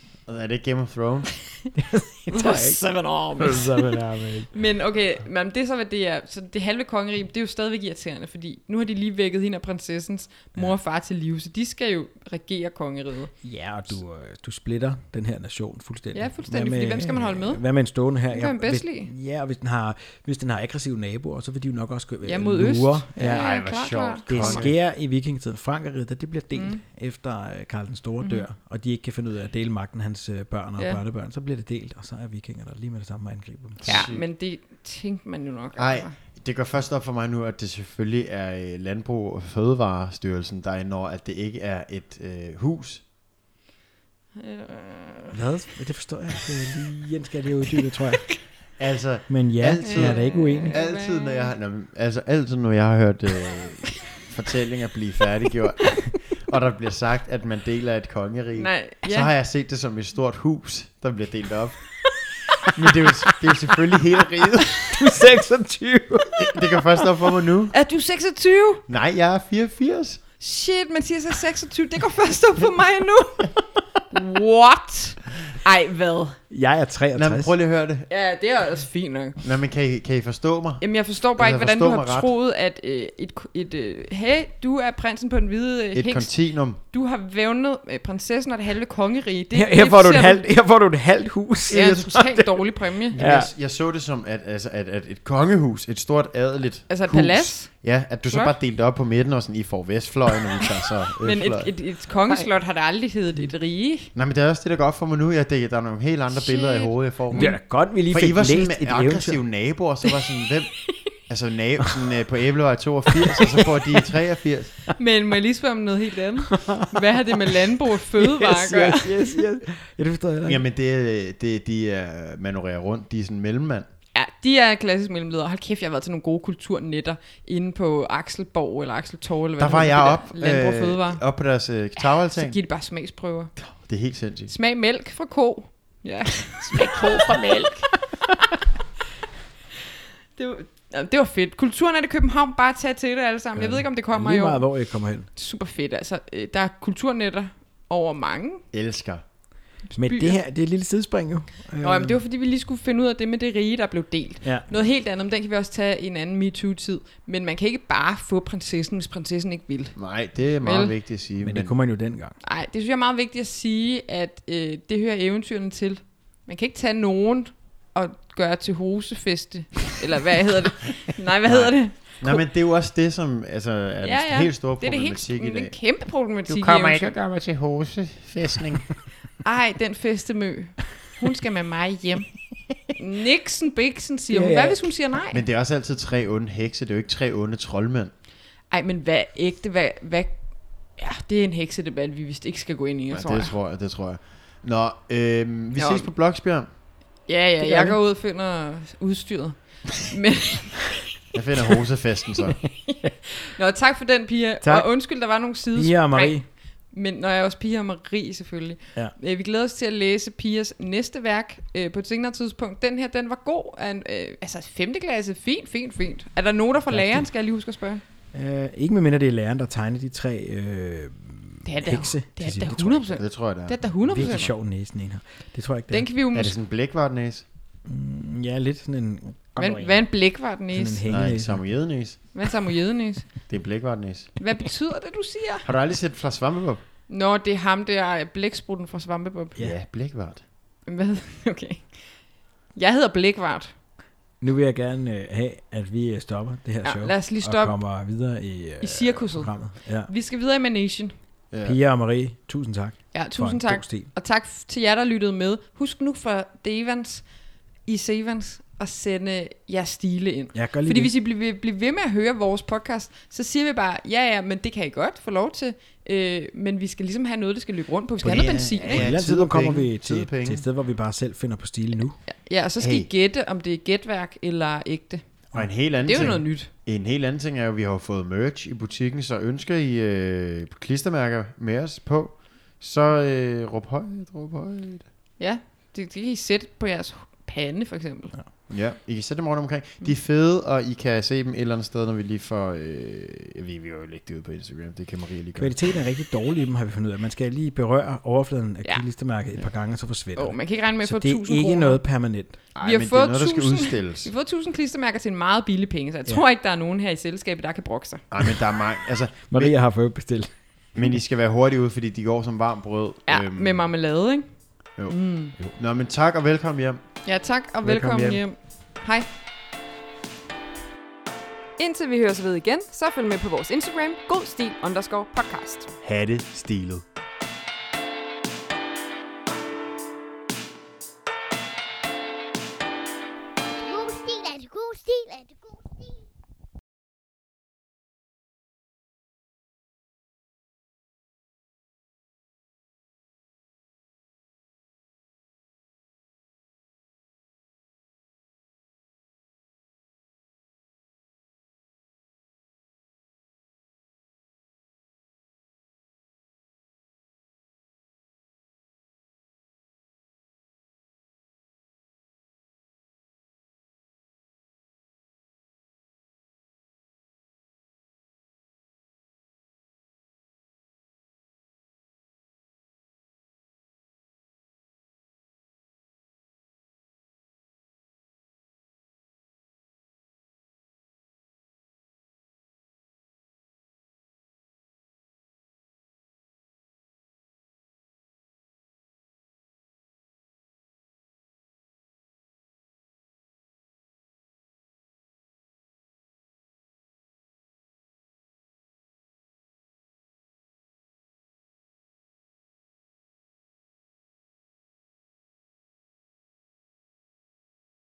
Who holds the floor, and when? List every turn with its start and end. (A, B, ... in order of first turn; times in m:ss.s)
0:00.3-0:01.4 A
0:01.8-0:02.8 B
0:02.3-0:04.0 C
0:03.4-0:04.6 B
0:04.5-0:13.3 C
0:13.4-0:23.5 B
0:16.1-0:17.6 C
0:18.3-0:19.1 C
0:22.2-0:24.7 C
0:23.2-0:24.8 A
0:24.3-0:34.0 B
0:26.6-0:26.8 C
0:28.2-0:28.5 C
0:33.8-0:34.2 A
0:33.8-0:36.1 C
0:35.8-0:43.0 A
0:44.4-0:45.4 C
0:45.3-0:48.4 B
0:48.8-1:05.0 A
0:49.3-0:50.8 B
0:49.8-0:51.5 C
0:58.6-0:59.3 C
1:04.9-1:06.7 B
1:06.4-1:07.7 A
1:07.7-1:08.8 C
1:08.9-1:10.2 A
1:10.4-1:13.5 C
1:14.1-1:16.4 C
1:16.5-1:17.5 B
1:17.2-1:18.1 A
1:18.1-1:19.4 C
1:19.4-1:22.3 A
1:20.8-1:30.4 C
1:25.9-1:26.8 A
1:29.5-1:32.5 B
1:31.7-1:33.2 C
1:33.1-1:41.7 A
1:33.2-1:33.5 B
1:36.9-1:37.7 C
1:38.3-1:38.6 C
1:41.2-1:44.1 C
1:44.2-1:54.8 A
1:46.3-1:47.6 C
1:47.3-1:49.4 B
1:53.2-1:54.0 B
1:55.0-1:59.3 C
1:56.5-1:57.2 B
1:58.1-2:00.6 B
2:00.4-2:03.9 A
2:04.1-2:11.2 C
2:09.6-2:12.6 A
2:12.0-2:13.5 C
2:13.6-2:14.5 A
2:14.5-2:18.4 C
2:16.7-2:17.9 A
2:20.4-2:24.7 C
2:23.6-2:25.3 B
2:25.3-2:28.6 C
2:28.7-2:29.2 A
2:29.9-2:30.4 C
2:29.9-2:32.2 B
2:31.8-2:40.0 C
2:34.4-2:34.7 B
2:40.0-2:41.7 A
2:40.6-2:40.9 C
2:41.4-2:42.4 B
2:42.4-2:52.4 C
2:51.5-2:55.7 A
2:54.0-2:57.0 C
2:56.5-2:58.9 A
2:59.4-3:02.3 C
3:02.9-3:05.4 C
3:04.3-3:04.9 B
3:05.3-3:08.1 A
3:08.7-3:10.4 C
3:10.9-3:13.5 C
3:13.1-3:16.7 A
3:15.8-3:16.1 C
3:17.3-3:21.1 C
3:17.6-3:18.0 B
3:21.3-3:22.6 A
3:23.5-3:38.0 C
3:24.6-3:24.9 B
3:25.8-3:26.5 B
3:36.9-3:37.3 B
3:38.3-3:43.1 B
3:41.6-3:44.5 C
3:43.2-3:44.3 A
3:44.0-3:46.1 B
3:45.9-3:46.6 C
3:46.3-3:47.4 A
3:47.9-3:50.1 B
3:49.6-3:51.0 C
3:50.7-3:51.6 B
3:51.1-3:52.2 A
3:52.3-3:53.3 C
3:53.5-3:54.3 A
3:54.4-3:55.7 C
3:55.6-3:56.8 A
3:57.1-3:59.6 C
3:59.6-4:00.4 A
4:00.9-4:03.7 C
4:04.4-4:10.1 B
4:06.8-4:07.8 C
4:08.8-4:11.1 C
4:11.5-4:11.8 A
4:11.6-4:14.1 B
4:13.1-4:17.3 C
4:17.8-4:29.1 C
4:20.5-4:21.1 B
4:28.2-4:30.6 A
4:28.2-4:32.2 B
4:32.3-4:35.4 C
4:32.8-4:33.1 A
4:35.5-4:36.4 B
4:35.5-4:45.1 A
4:36.0-4:36.7 C
4:45.4-4:48.4 C
4:48.7-4:55.9 A
4:55.6-5:02.6 B
5:00.4-5:02.0 C
5:02.8-5:04.3 A
5:02.8-5:08.3 C
5:08.3-5:09.8 A
5:09.5-5:10.5 B
5:11.0-5:13.8 A
5:13.3-5:15.6 C
5:15.0-5:17.0 A
5:17.2-5:19.3 C
5:17.8-5:18.4 B
5:21.8-5:25.9 C
5:26.0-5:27.0 A
5:33.6-5:36.3 D